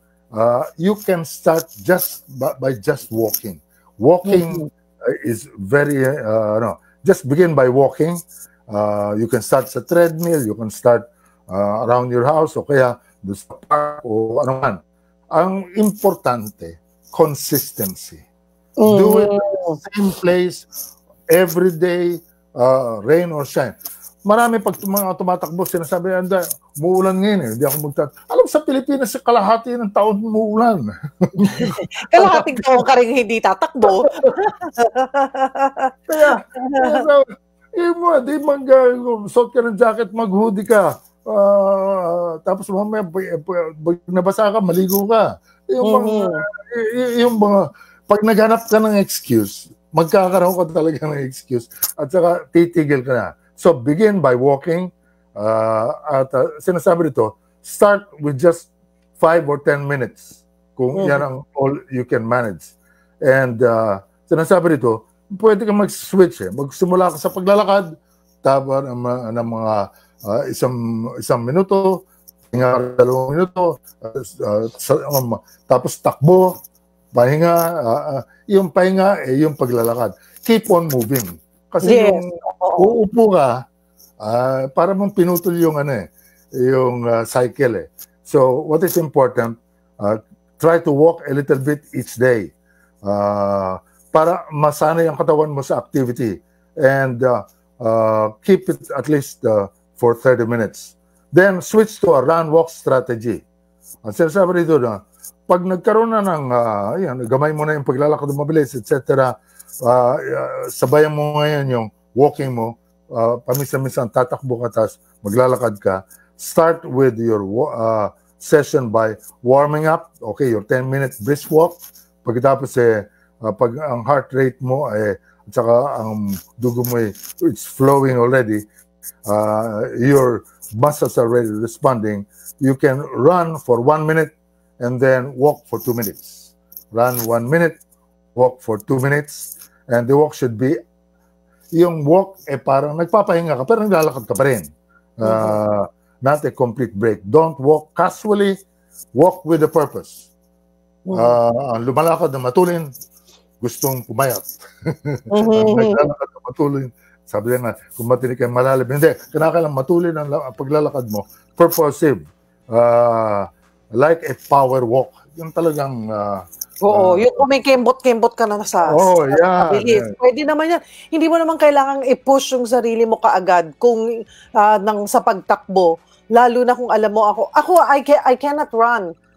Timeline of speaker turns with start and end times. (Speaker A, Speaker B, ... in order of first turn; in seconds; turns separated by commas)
Speaker A: 0.3-14.8, Speaker B: 4.3-4.7, Speaker A: 15.3-18.2, Speaker B: 18.8-19.8, Speaker A: 18.9-20.7, Speaker A: 21.3-23.7, Speaker A: 24.3-32.8, Speaker B: 31.5-37.0, Speaker A: 34.0-34.3, Speaker A: 36.1-67.9, Speaker B: 45.8-46.4, Speaker B: 61.0-61.2, Speaker A: 68.4-76.5, Speaker A: 77.1-83.6, Speaker B: 81.8-82.9, Speaker A: 84.2-92.5, Speaker A: 93.0-103.4, Speaker A: 104.0-109.3, Speaker A: 109.8-128.7, Speaker A: 129.3-137.8, Speaker A: 138.4-140.8, Speaker A: 141.7-144.7, Speaker A: 145.2-148.6, Speaker B: 145.2-145.6, Speaker A: 149.2-150.3, Speaker B: 151.1-151.4, Speaker A: 151.1-152.9, Speaker A: 153.6-167.4, Speaker B: 155.3-156.0, Speaker B: 166.8-174.0, Speaker A: 168.9-170.1, Speaker B: 174.6-179.1